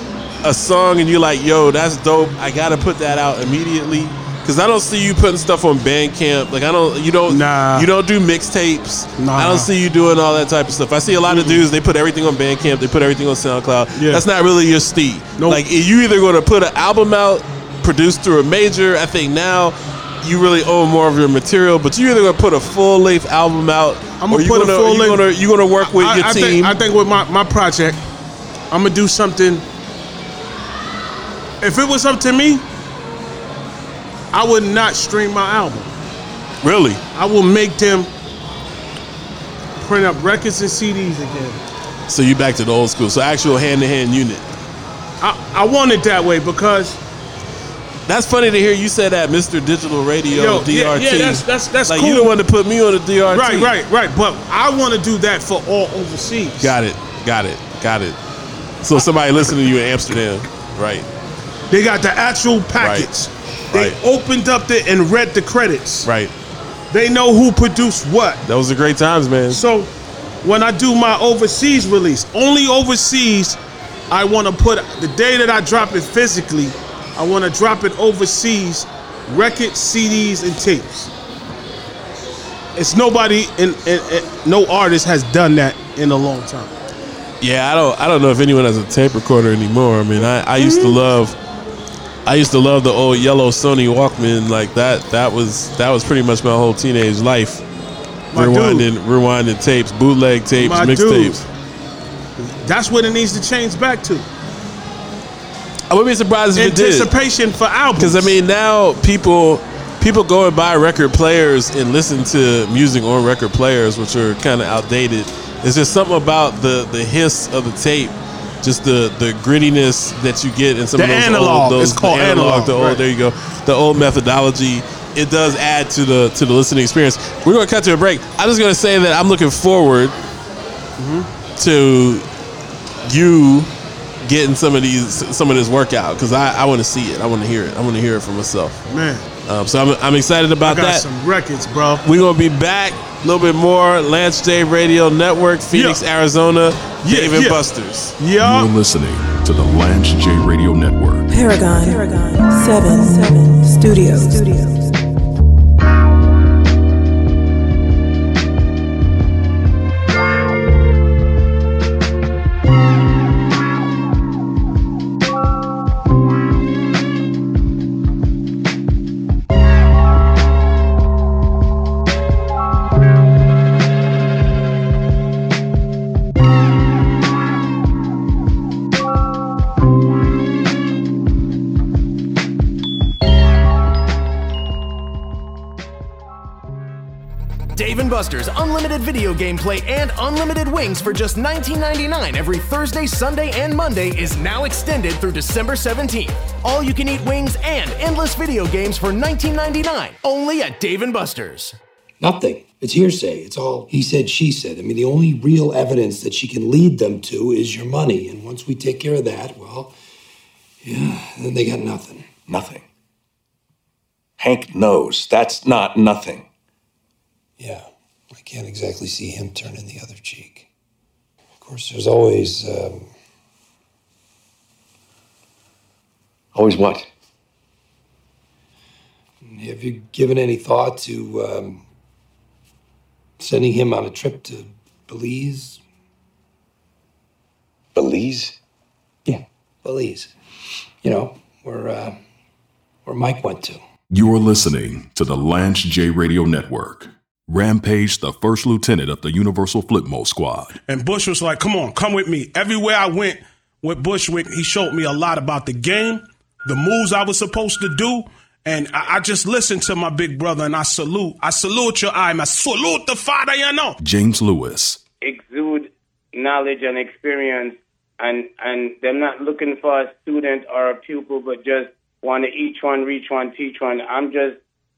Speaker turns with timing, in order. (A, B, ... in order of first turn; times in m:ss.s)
0:00.4-0:26.7 A
0:07.3-0:07.9 B
0:09.2-0:09.7 B
0:11.3-0:11.6 B
0:13.9-0:14.2 B
0:24.2-0:25.2 B
0:25.8-0:28.0 B
0:28.7-0:29.6 B
0:31.6-0:32.6 B
0:34.3-0:35.9 B
0:36.6-0:37.0 A
0:37.1-0:38.1 B
0:39.8-0:41.6 B
0:42.1-0:44.4 A
0:45.2-0:47.0 B
0:48.1-0:53.7 A
0:50.3-0:52.4 B
0:53.3-0:56.8 B
0:56.6-0:58.2 A
0:58.8-1:01.1 A
1:01.7-1:06.1 B
1:02.8-1:03.1 A
1:06.0-1:06.3 A
1:06.9-1:08.4 B
1:08.4-1:09.6 A
1:09.5-1:09.9 B
1:10.4-1:13.6 B
1:14.1-1:21.1 B
1:22.8-1:26.7 B
1:27.4-1:31.4 A
1:30.6-1:31.0 B
1:32.2-1:37.6 A
1:38.3-1:38.9 B
1:38.3-1:41.4 A
1:40.5-1:41.4 B
1:42.4-1:44.3 B
1:45.9-1:47.1 A
1:46.5-1:48.3 B
1:48.0-2:10.2 A
2:01.0-2:03.0 B
2:11.0-2:11.3 B
2:11.6-2:12.2 A
2:13.0-2:13.7 A
2:14.2-2:18.8 A
2:18.9-2:19.2 B
2:19.5-2:21.0 A
2:20.6-2:22.0 B
2:22.0-2:28.2 A
2:25.7-2:26.0 B
2:27.0-2:27.6 B
2:28.2-2:28.7 B
2:28.4-2:31.3 C
2:31.3-2:35.0 D
3:07.8-3:21.8 E
3:22.2-3:29.9 F
3:30.8-3:32.3 F
3:32.5-3:32.8 G
3:34.4-3:36.5 G
3:37.6-3:40.7 F
3:41.6-3:43.1 F
3:46.5-3:47.1 G
3:49.4-3:51.8 F
3:53.4-3:55.8 F
3:57.9-3:58.6 G
3:59.2-4:00.3 F
4:01.0-4:02.2 F
4:03.0-4:03.8 F
4:04.1-4:10.8 C
4:10.9-4:24.0 B
4:24.0-4:25.0 C
4:25.2-4:34.6 H